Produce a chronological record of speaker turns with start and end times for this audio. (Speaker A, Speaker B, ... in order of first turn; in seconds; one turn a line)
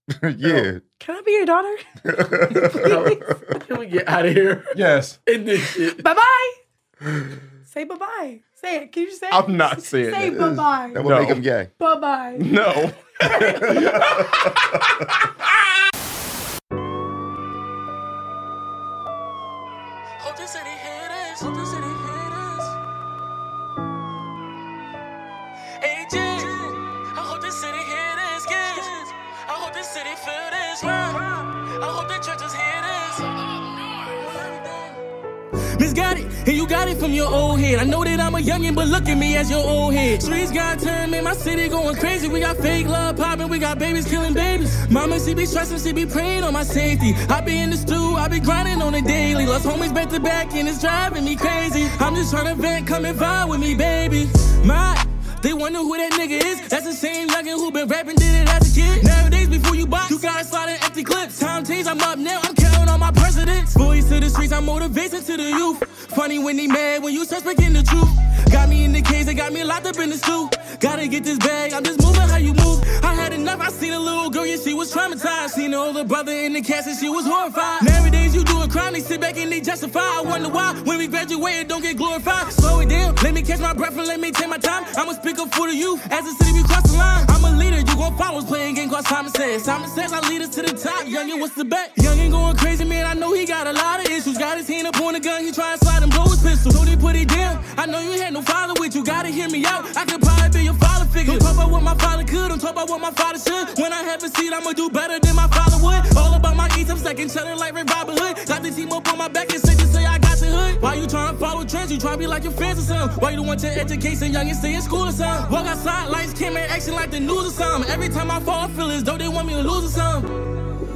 Speaker A: 0.1-0.8
Speaker B: 1.0-1.8
Speaker A: 2.0-3.5
Speaker B: 2.5-3.2
Speaker C: 2.6-6.0
Speaker D: 4.7-5.2
Speaker B: 5.9-6.6
Speaker B: 7.7-11.0
Speaker D: 9.3-11.4
Speaker A: 10.2-11.7
Speaker B: 11.8-12.5
Speaker D: 12.4-14.8
Speaker A: 13.4-14.5
Speaker E: 20.2-22.8
Speaker E: 25.8-35.0
Speaker E: 35.8-120.3